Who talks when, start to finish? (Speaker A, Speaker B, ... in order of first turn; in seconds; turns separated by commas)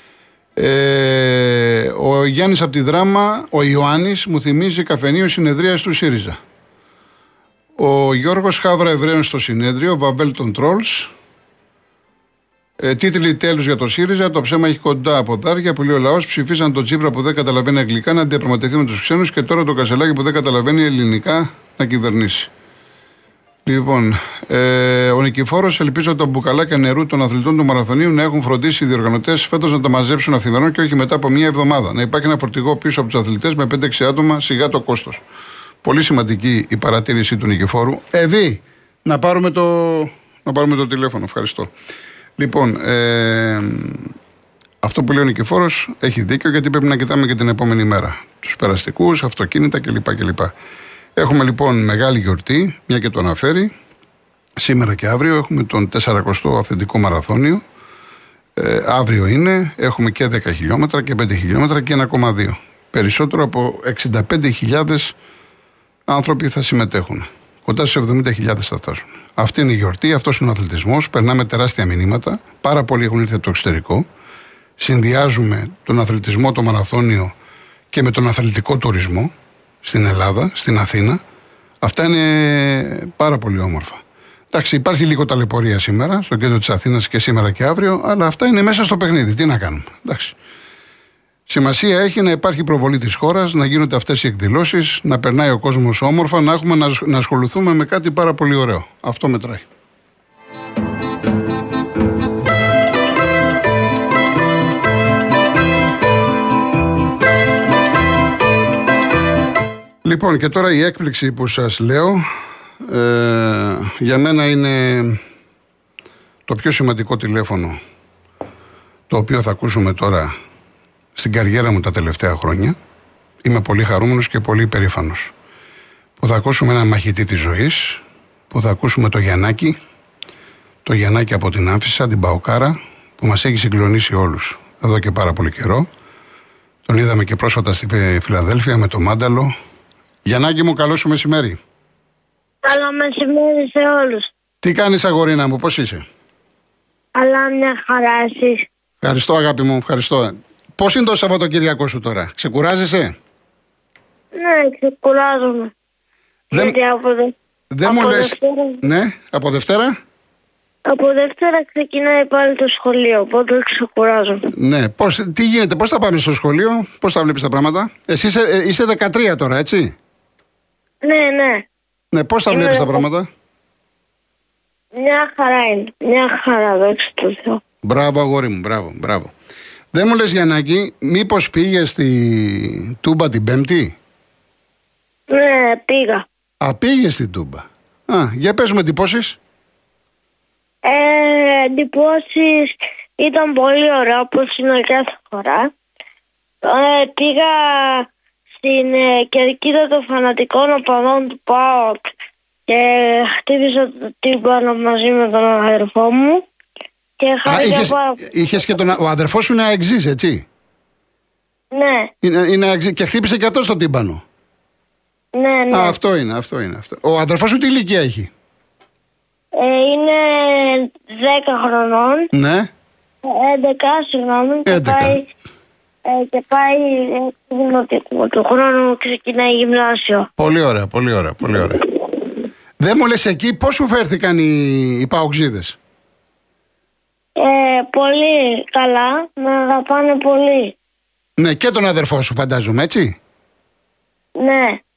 Speaker A: 0.6-6.4, Speaker A: 7.8-11.1, Speaker A: 12.8-22.5, Speaker A: 23.6-35.2, Speaker A: 35.8-41.7, Speaker A: 42.4-44.1, Speaker A: 44.8-50.5, Speaker A: 51.2-53.7, Speaker A: 54.6-57.6, Speaker A: 58.5-65.1, Speaker A: 66.1-74.0, Speaker A: 74.8-77.3, Speaker A: 77.9-81.2, Speaker A: 81.8-84.0, Speaker A: 84.5-90.3, Speaker A: 91.5-99.6, Speaker A: 110.0-112.3, Speaker A: 112.8-115.2, Speaker A: 116.5-117.8, Speaker A: 119.1-120.3, Speaker A: 121.2-122.8, Speaker A: 123.4-125.3, Speaker A: 126.2-129.8, Speaker A: 130.8-135.9, Speaker A: 136.8-139.5, Speaker A: 140.2-141.6, Speaker B: 142.6-144.3, Speaker A: 144.6-146.0, Speaker B: 147.2-148.6, Speaker A: 149.0-153.1, Speaker B: 154.3-155.7, Speaker B: 156.5-157.3, Speaker A: 157.7-159.9, Speaker B: 157.8-158.8, Speaker B: 160.9-164.4, Speaker A: 164.6-169.9, Speaker B: 171.0-171.7, Speaker A: 172.1-173.3, Speaker B: 172.5-173.0, Speaker B: 174.9-177.6, Speaker A: 177.8-179.3, Speaker A: 179.9-183.9, Speaker B: 185.3-186.2, Speaker A: 186.6-189.4, Speaker B: 190.8-195.7, Speaker B: 196.6-198.1, Speaker B: 198.6-202.1, Speaker B: 202.7-206.4, Speaker B: 207.2-208.9, Speaker A: 207.4-210.4, Speaker B: 211.7-212.1, Speaker A: 212.2-214.2, Speaker B: 215.3-215.9, Speaker A: 215.7-218.3, Speaker B: 219.6-222.3, Speaker A: 222.3-222.7, Speaker B: 223.2-225.3, Speaker A: 224.7-225.2, Speaker B: 226.1-230.3, Speaker A: 230.4-231.8, Speaker A: 232.8-235.8, Speaker B: 237.4-240.8, Speaker A: 241.4-243.1, Speaker B: 244.4-244.8